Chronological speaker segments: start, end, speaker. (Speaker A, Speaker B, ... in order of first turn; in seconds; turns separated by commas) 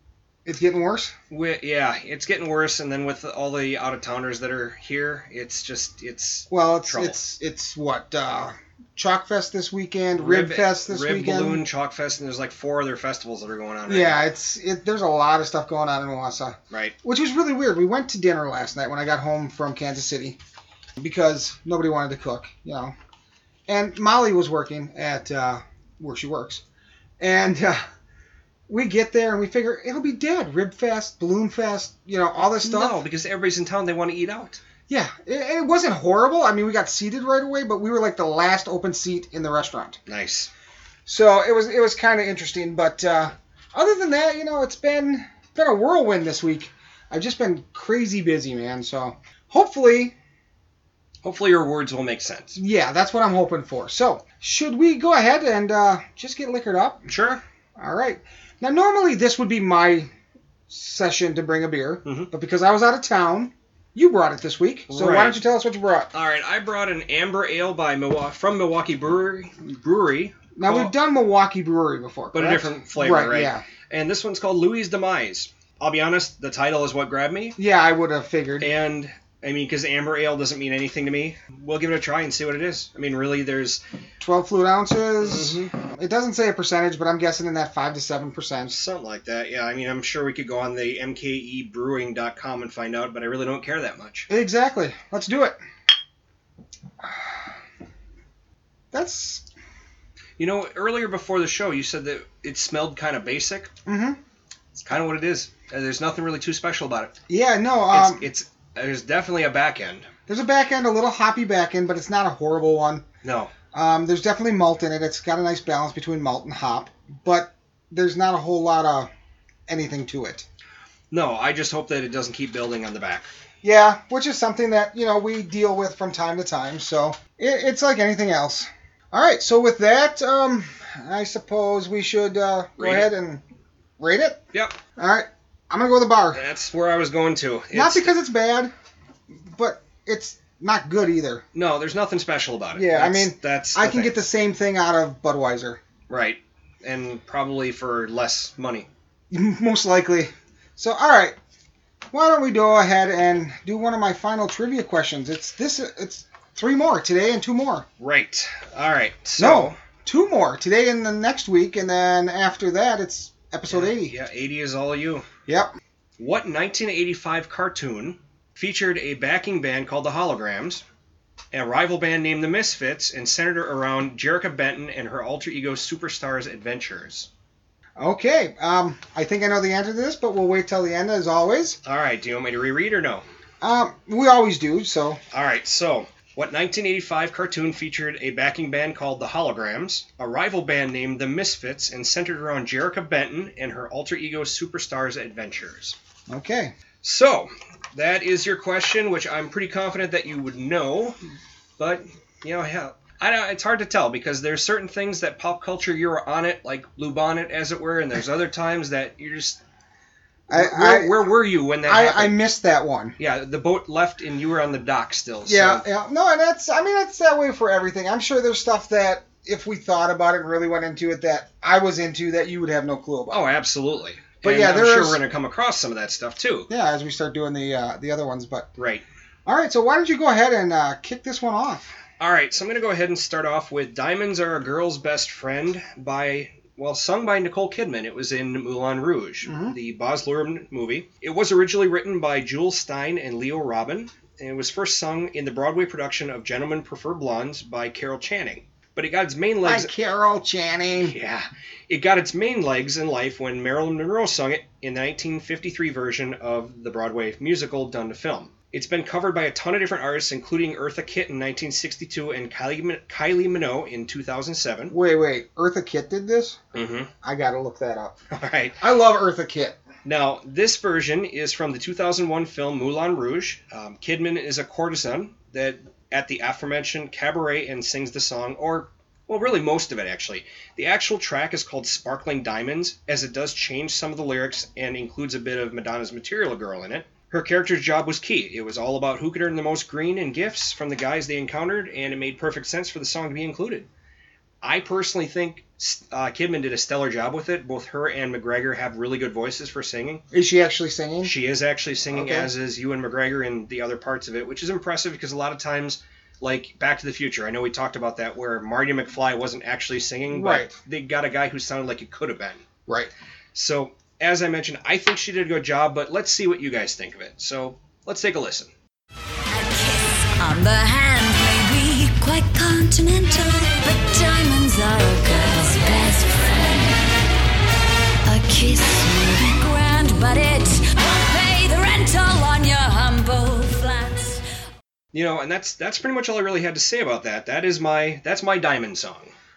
Speaker A: 0.5-1.1, Speaker B: 1.3-7.2, Speaker A: 6.5-11.7, Speaker B: 10.2-14.2, Speaker A: 13.9-20.4, Speaker B: 16.7-17.0, Speaker A: 21.0-22.9, Speaker A: 23.7-26.6, Speaker A: 27.2-27.8, Speaker A: 28.7-33.0, Speaker B: 32.6-34.6, Speaker A: 34.9-40.0, Speaker B: 40.1-40.5, Speaker A: 41.1-50.1, Speaker B: 51.2-52.6, Speaker A: 52.5-57.1, Speaker B: 57.1-57.4, Speaker A: 57.8-60.1, Speaker A: 60.7-66.1, Speaker B: 62.0-62.3, Speaker B: 64.9-65.4, Speaker B: 66.1-70.9, Speaker A: 70.6-73.6, Speaker B: 72.3-77.6, Speaker A: 77.6-78.7, Speaker B: 78.6-83.8, Speaker A: 84.2-88.8, Speaker B: 85.2-85.7, Speaker B: 88.7-94.3, Speaker A: 94.3-95.6, Speaker A: 97.0-97.5, Speaker A: 98.9-99.4, Speaker B: 100.4-103.7, Speaker A: 103.9-104.2, Speaker B: 104.8-107.2, Speaker A: 107.3-108.3, Speaker B: 107.9-110.1, Speaker A: 110.3-113.0, Speaker B: 113.2-113.5, Speaker A: 113.7-119.1, Speaker A: 119.7-120.5, Speaker B: 121.1-123.3, Speaker A: 123.6-133.4, Speaker B: 132.8-133.1, Speaker A: 134.0-134.4, Speaker B: 134.5-134.8, Speaker A: 135.0-136.4, Speaker B: 136.3-138.1, Speaker A: 137.7-138.7, Speaker A: 139.5-141.4, Speaker B: 141.5-144.2, Speaker A: 142.7-145.8, Speaker B: 146.1-148.9, Speaker A: 149.3-151.4, Speaker A: 152.1-157.9, Speaker B: 158.0-159.8, Speaker A: 159.4-164.2, Speaker B: 163.7-165.3, Speaker A: 165.5-165.8, Speaker B: 166.2-170.8, Speaker B: 171.5-177.3, Speaker A: 178.0-181.8, Speaker B: 181.8-183.2, Speaker A: 183.6-185.2, Speaker B: 185.3-196.0, Speaker A: 196.3-196.7, Speaker B: 197.0-201.2, Speaker B: 201.8-209.6, Speaker A: 210.5-211.3, Speaker B: 210.5-212.4, Speaker A: 211.8-213.2, Speaker B: 213.2-215.8, Speaker A: 215.5-223.4, Speaker B: 223.3-226.7, Speaker A: 224.4-225.2, Speaker A: 226.7-228.7, Speaker B: 228.8-229.1, Speaker A: 229.5-232.0, Speaker B: 232.2-249.9, Speaker A: 239.4-239.8, Speaker A: 249.6-251.2, Speaker B: 250.9-264.9, Speaker A: 264.9-266.6, Speaker B: 266.7-267.1, Speaker A: 267.2-268.2, Speaker B: 268.3-268.8, Speaker A: 268.8-269.8, Speaker B: 270.0-293.9, Speaker B: 294.6-300.2, Speaker A: 300.3-301.3, Speaker B: 301.2-312.6, Speaker A: 302.1-302.5, Speaker A: 310.3-310.8, Speaker B: 313.5-318.7, Speaker C: 319.5-327.0, Speaker C: 328.3-334.4, Speaker B: 335.1-339.3